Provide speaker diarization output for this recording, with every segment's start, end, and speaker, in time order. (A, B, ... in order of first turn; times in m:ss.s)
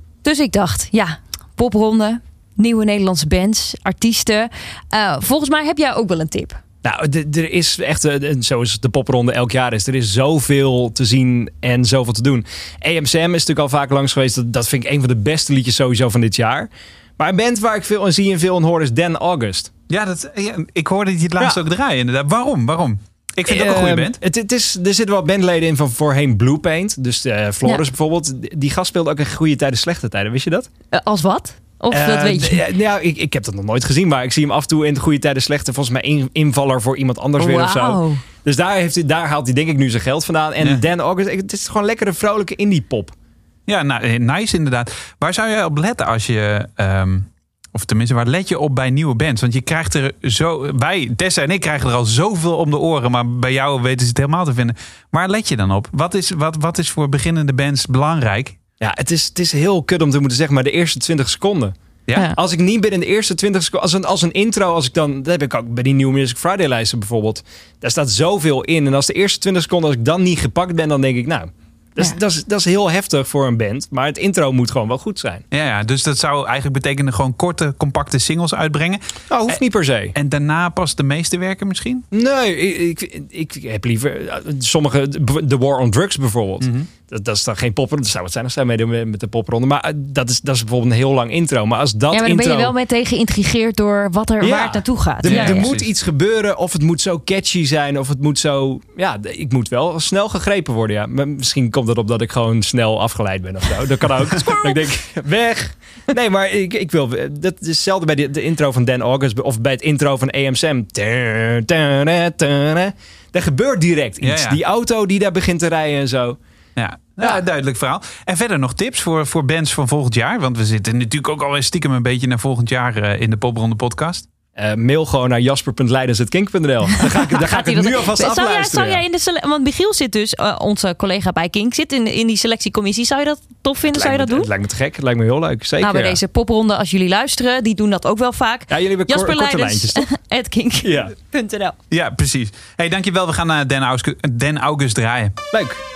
0:00.2-0:06.6 A
0:06.8-0:19.7 B
0:19.9-0:24.2 C
0:23.5-0:30.7 B
0:30.9-0:32.6 A
0:31.9-0:43.1 B
0:37.4-0:38.2 A
0:40.6-0:40.8 C
0:43.7-0:58.6 C
0:58.8-1:01.7 B
1:02.3-1:15.4 B
1:15.5-1:19.6 C
1:19.3-1:20.1 B
1:20.1-1:22.0 C
1:22.1-1:32.7 B
1:26.6-1:26.9 C
1:32.1-1:35.7 A
1:34.4-1:56.4 B
1:35.2-1:35.9 C
1:44.4-1:44.8 A
1:54.2-1:54.6 C
1:56.8-2:04.2 C
2:04.6-2:09.0 B
2:07.1-2:14.5 A
2:13.9-2:16.2 B
2:15.8-2:21.8 A
2:18.7-2:20.1 B
2:20.8-2:21.1 B
2:21.9-2:25.4 C
2:25.5-2:25.8 B